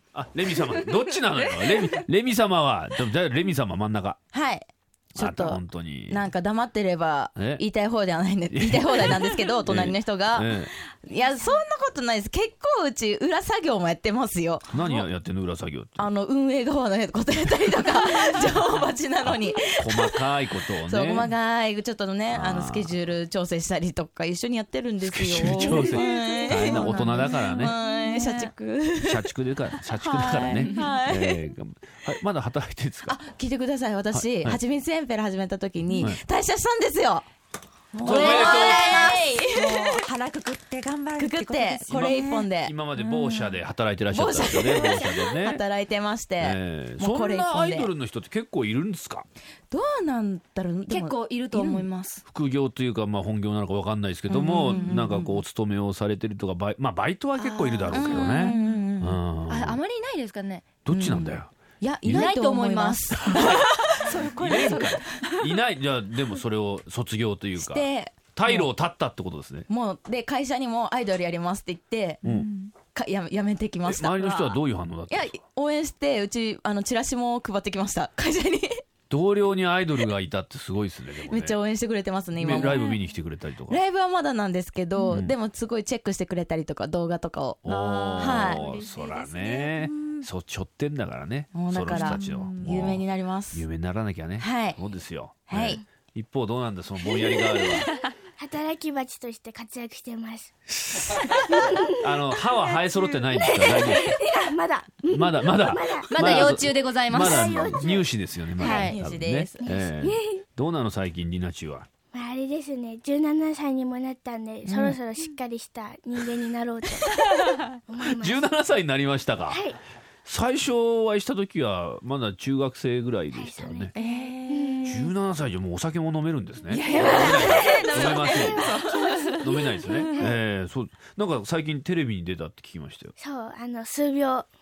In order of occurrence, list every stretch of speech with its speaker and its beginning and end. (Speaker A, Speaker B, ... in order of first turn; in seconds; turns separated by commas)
Speaker A: 0.1-4.2, Speaker B: 4.3-15.1, Speaker A: 5.2-6.3, Speaker A: 7.3-7.6, Speaker A: 8.5-10.7, Speaker A: 14.7-16.1, Speaker B: 16.0-20.3, Speaker A: 19.2-21.3, Speaker B: 20.8-29.3, Speaker A: 22.3-22.9, Speaker A: 25.0-27.7, Speaker C: 26.5-27.5, Speaker D: 27.2-28.5, Speaker A: 29.0-33.2, Speaker B: 29.9-31.4, Speaker B: 33.0-37.2, Speaker A: 34.1-34.6, Speaker B: 37.9-40.0, Speaker A: 38.0-39.1, Speaker C: 38.1-39.2, Speaker D: 38.7-43.4, Speaker B: 41.1-42.8, Speaker A: 41.9-45.6, Speaker B: 44.1-47.9, Speaker A: 46.4-49.2, Speaker B: 49.7-51.9, Speaker C: 50.9-52.2, Speaker A: 52.3-59.8, Speaker B: 54.3-55.4, Speaker C: 54.6-54.9, Speaker C: 57.4-58.5, Speaker B: 57.9-59.2, Speaker C: 59.5-60.8, Speaker A: 60.8-61.5, Speaker B: 60.9-65.1, Speaker C: 62.1-63.1, Speaker A: 63.2-69.7, Speaker D: 64.3-64.7, Speaker B: 67.5-68.7, Speaker B: 69.7-72.2, Speaker A: 72.2-72.5, Speaker D: 72.3-72.7, Speaker B: 72.8-78.8, Speaker A: 73.8-75.3, Speaker A: 79.1-81.6, Speaker B: 81.2-82.9, Speaker A: 82.3-83.8, Speaker B: 83.7-88.7, Speaker A: 85.1-85.3, Speaker A: 87.6-97.9, Speaker C: 87.7-89.0, Speaker D: 88.4-90.2, Speaker B: 91.5-93.6, Speaker D: 92.0-92.8, Speaker B: 94.4-94.8, Speaker B: 95.5-95.8, Speaker E: 98.4-100.5, Speaker E: 101.5-101.9, Speaker A: 102.0-104.2, Speaker E: 103.4-106.5, Speaker A: 105.1-111.9, Speaker C: 106.1-107.5, Speaker B: 107.1-109.8, Speaker E: 107.5-107.8, Speaker E: 108.6-108.9, Speaker C: 108.6-108.9, Speaker E: 109.6-110.3, Speaker E: 112.1-117.1, Speaker B: 114.7-115.0, Speaker E: 117.9-118.5, Speaker A: 118.0-119.7, Speaker E: 119.5-119.8, Speaker A: 120.2-124.0, Speaker E: 123.3-123.9, Speaker C: 124.0-124.2, Speaker D: 124.0-124.6, Speaker B: 124.0-124.3, Speaker E: 124.5-125.1, Speaker A: 124.8-128.8, Speaker D: 126.7-129.4, Speaker E: 126.9-130.3, Speaker B: 127.2-127.5, Speaker A: 129.4-133.1, Speaker E: 133.2-134.5